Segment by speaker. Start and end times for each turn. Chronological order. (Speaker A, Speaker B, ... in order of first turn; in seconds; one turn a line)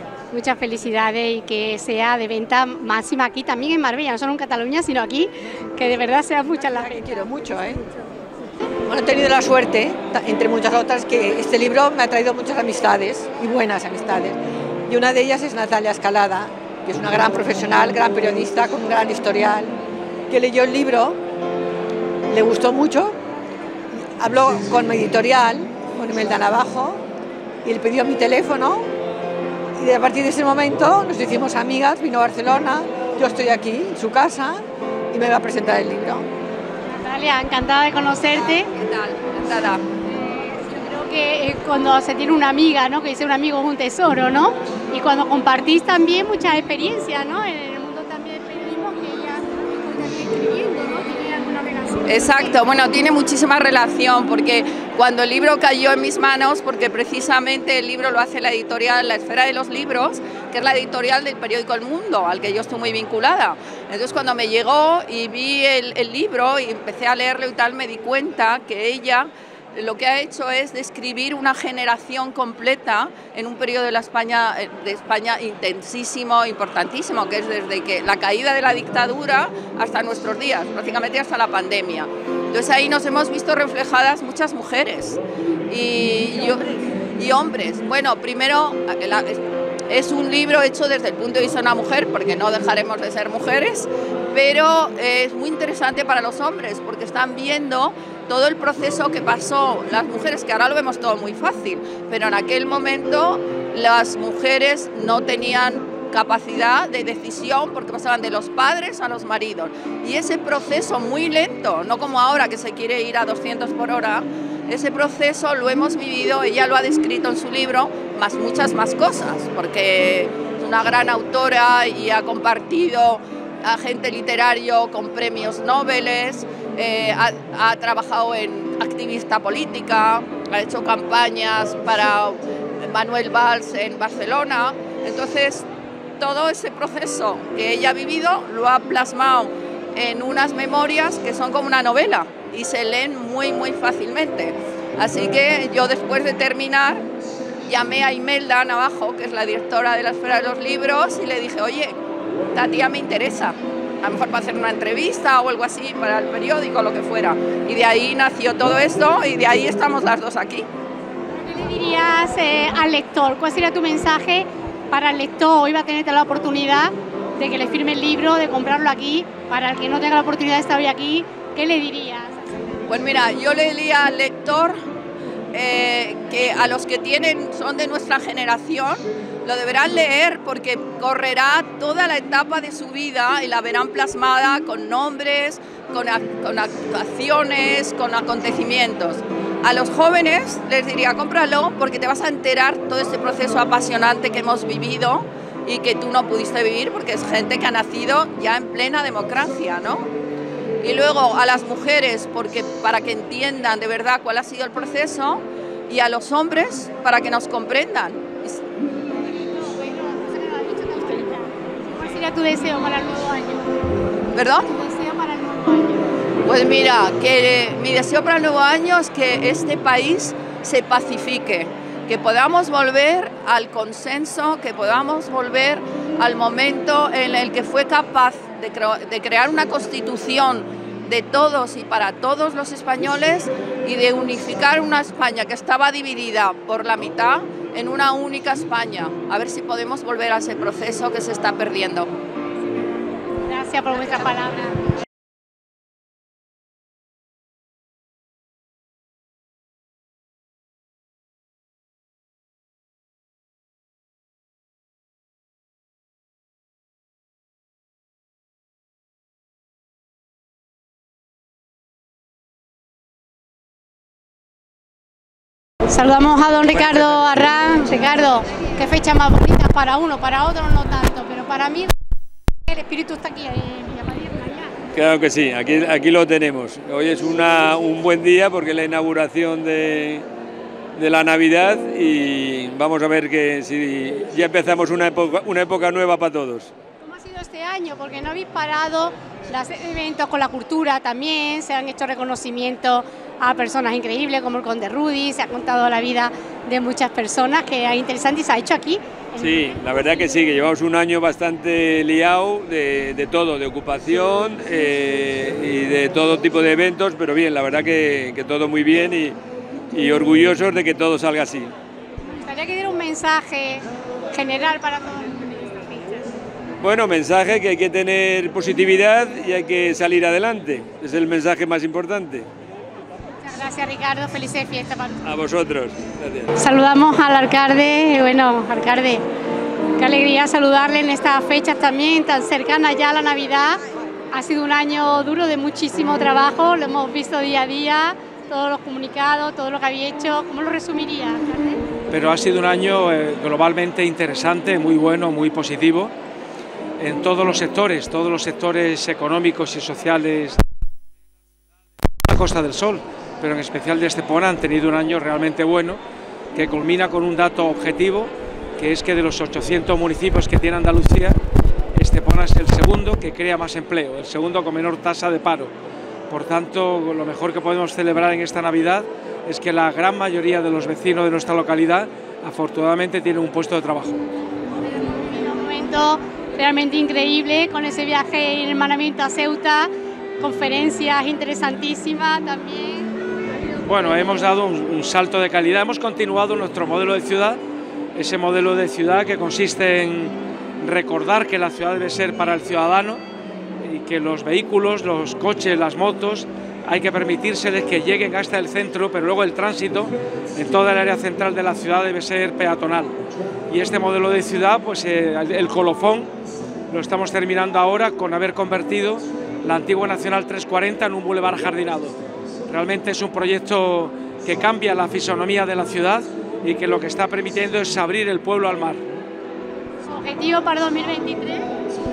Speaker A: 0.3-7.1
Speaker B: 6.7-7.8
Speaker B: 8.8-19.8
Speaker B: 20.3-21.2
Speaker B: 22.3-23.2
Speaker B: 23.9-27.0
Speaker B: 27.6-28.9
Speaker B: 29.8-36.3
Speaker A: 36.9-38.7
Speaker C: 38.3-39.8
Speaker A: 40.0-52.5
Speaker C: 52.1-135.6
Speaker C: 136.2-147.1
Speaker C: 147.7-152.0
Speaker C: 152.5-160.7
Speaker A: 161.3-173.0
Speaker C: 172.9-174.8
Speaker C: 175.5-200.1
Speaker C: 200.8-208.6
Speaker A: 209.2-214.0
Speaker C: 214.3-214.7
Speaker A: 214.6-216.1
Speaker C: 216.4-242.2
Speaker A: 243.4-244.8
Speaker A: 265.9-271.9
Speaker A: 272.7-274.7
Speaker D: 274.9-280.2
Speaker D: 280.9-286.7
Speaker A: 287.0-300.3
Speaker D: 299.4-309.4
Speaker D: 309.9-311.7
Speaker A: 312.2-316.3
Speaker D: 316.8-322.5
Speaker A: 323.4-325.2
Speaker D: 325.2-326.5
Speaker A: 326.5-329.2
Speaker A: 330.0-333.8
Speaker A: 334.3-341.8
Speaker E: 342.1-346.1
Speaker E: 347.0-350.6
Speaker E: 352.2-356.0
Speaker E: 356.5-361.4
Speaker E: 361.9-365.7
Speaker E: 366.3-374.2
Speaker A: 374.7-383.1
Speaker E: 383.8-387.6
Speaker E: 388.1-393.2
Speaker E: 393.8-406.3
Speaker E: 406.9-412.1
Speaker E: 412.7-419.0
Speaker A: 420.1-421.7